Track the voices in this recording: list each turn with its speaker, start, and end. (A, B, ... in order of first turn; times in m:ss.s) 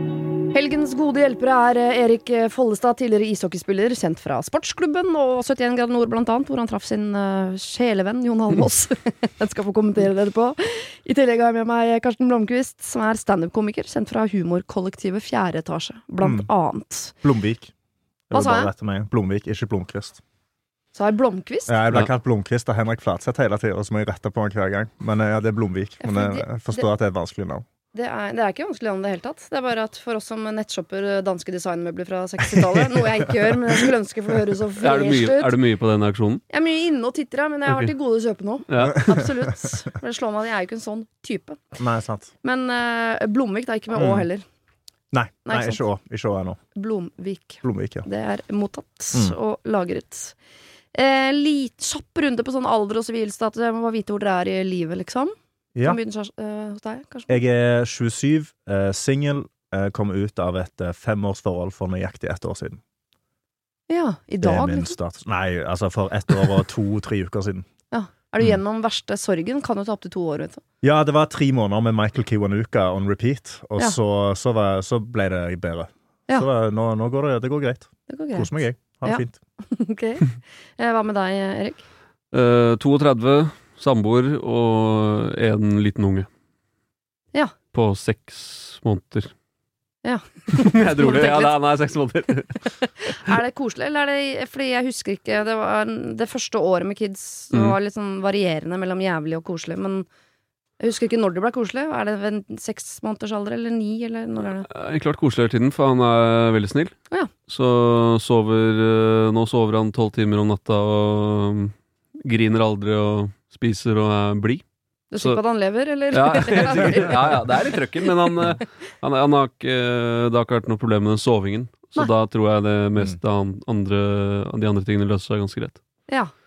0:00.5-0:17.2 A
0:16.2-0:16.5 B
0:17.2-0:17.7 B
0:18.3-0:20.2 B
0:18.3-0:18.7 A
0:20.9-0:21.8 A
0:21.7-0:27.6 B
0:26.0-0:26.9 A
0:27.9-0:35.6 A
0:32.4-0:33.9 B
0:34.8-0:36.4 C
0:36.5-0:41.8 A
0:38.7-0:39.2 C
0:38.8-0:39.8 B
0:41.8-0:42.3 B
0:42.4-0:44.4 A
0:44.0-0:44.3 B
0:45.1-0:46.6 B
0:45.4-0:45.8 A
0:46.8-0:50.4 A
0:47.6-0:48.0 B
0:50.9-0:55.3 A
0:55.8-0:57.4 A
0:57.3-1:02.8 B
1:03.9-1:05.0 A
1:04.4-1:07.7 B
1:07.9-1:10.6 A
1:10.8-1:19.4 B
1:18.1-1:21.8 A
1:22.3-1:26.3 C
1:27.7-1:29.3 C
1:30.0-1:31.6 A
1:30.5-1:32.9 C
1:33.0-1:40.1 A
1:40.8-1:44.7 A
1:44.7-1:46.9 C
1:47.5-1:54.6 C
1:55.1-1:57.6 A
1:56.1-2:05.8 C